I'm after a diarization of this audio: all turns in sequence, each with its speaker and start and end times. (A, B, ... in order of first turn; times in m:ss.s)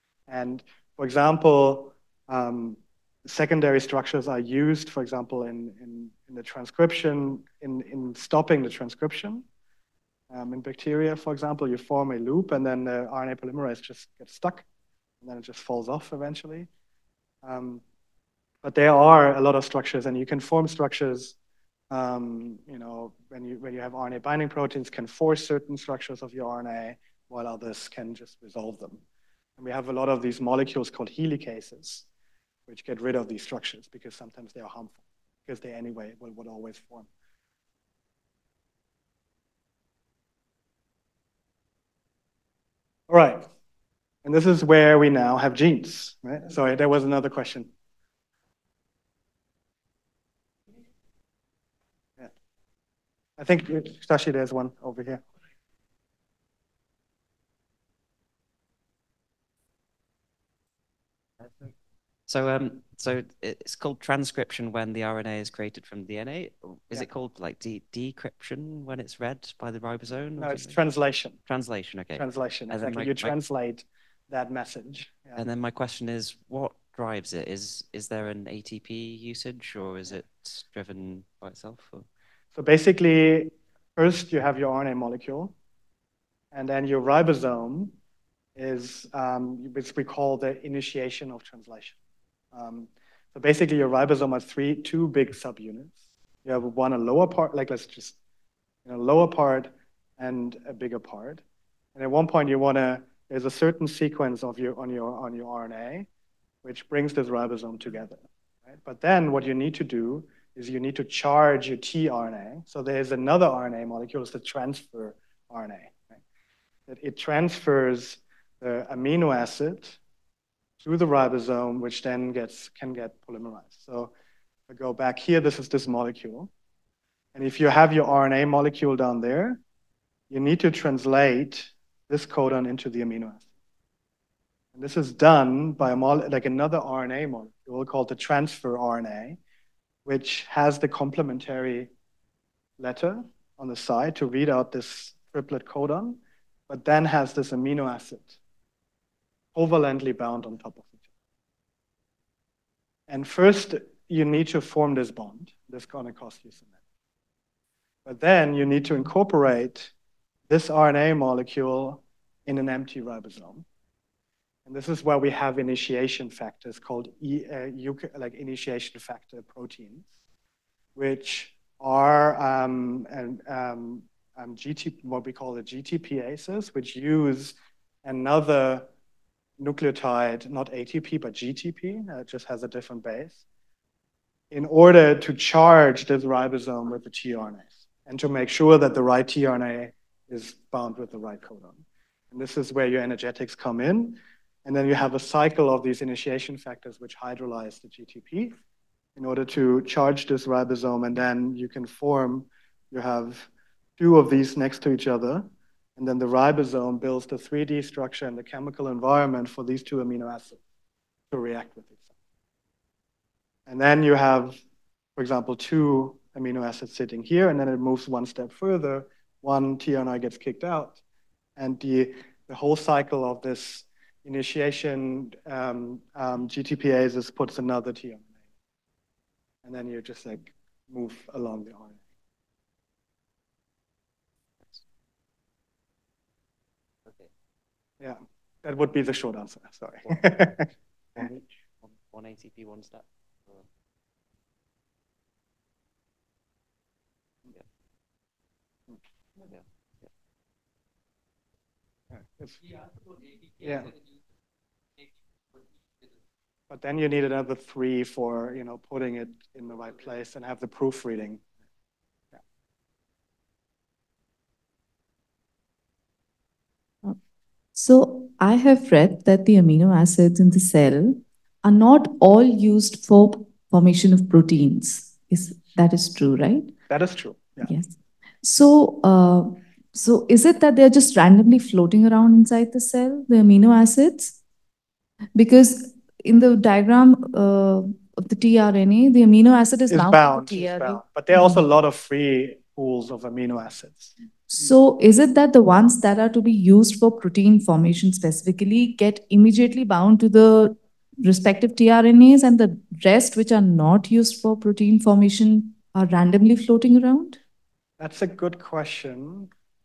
0:00.3-0:09.4 A
0:10.3-0:14.6 A
0:15.2-0:16.7 A
0:17.4-0:17.8 A
0:18.6-0:21.4 A
0:21.9-0:29.0 A
0:29.6-0:32.1 A
0:32.7-0:37.1 A
0:43.1-0:43.5 A
0:44.2-0:47.7 A
0:53.4-0:55.2 A
1:02.3-1:10.8 B
1:10.4-1:11.4 A
1:11.5-1:13.4 B
1:12.1-1:15.4 A
1:15.4-1:22.1 B
1:22.6-1:25.5 A
1:26.5-1:27.9 A
1:28.6-1:32.0 A
1:32.5-1:38.2 A
1:38.8-1:41.4 A
1:42.0-1:46.1 A
1:46.6-1:56.2 A
1:56.9-2:00.0 A
2:00.8-2:04.1 A
2:04.7-2:06.5 A
2:07.4-2:09.6 A
2:10.3-2:13.5 A
2:14.8-2:19.4 A
2:20.1-2:21.9 A
2:22.8-2:28.4 A
2:29.6-2:31.0 A
2:33.1-2:36.7 A
2:38.0-2:39.9 A
2:40.5-2:43.6 A
2:44.7-2:50.1 A
2:51.0-2:58.9 A
2:59.6-3:03.4 A
3:04.5-3:18.5 A
3:19.2-3:30.6 A
3:31.3-3:32.0 A
3:33.7-3:34.6 A
3:35.2-3:41.0 A
3:41.6-3:48.3 A
3:49.6-3:52.0 A
3:58.0-4:00.7 A
4:01.2-4:03.7 B
4:09.4-4:10.1 B
4:12.1-4:12.8 A
4:13.6-4:13.9 A
4:16.7-4:21.4 A
4:27.8-4:36.7 C
4:36.9-4:37.7 A
4:37.6-4:44.4 C
4:45.4-4:51.6 C
4:49.9-4:54.1 A
4:54.5-5:07.4 C
5:08.0-5:09.5 A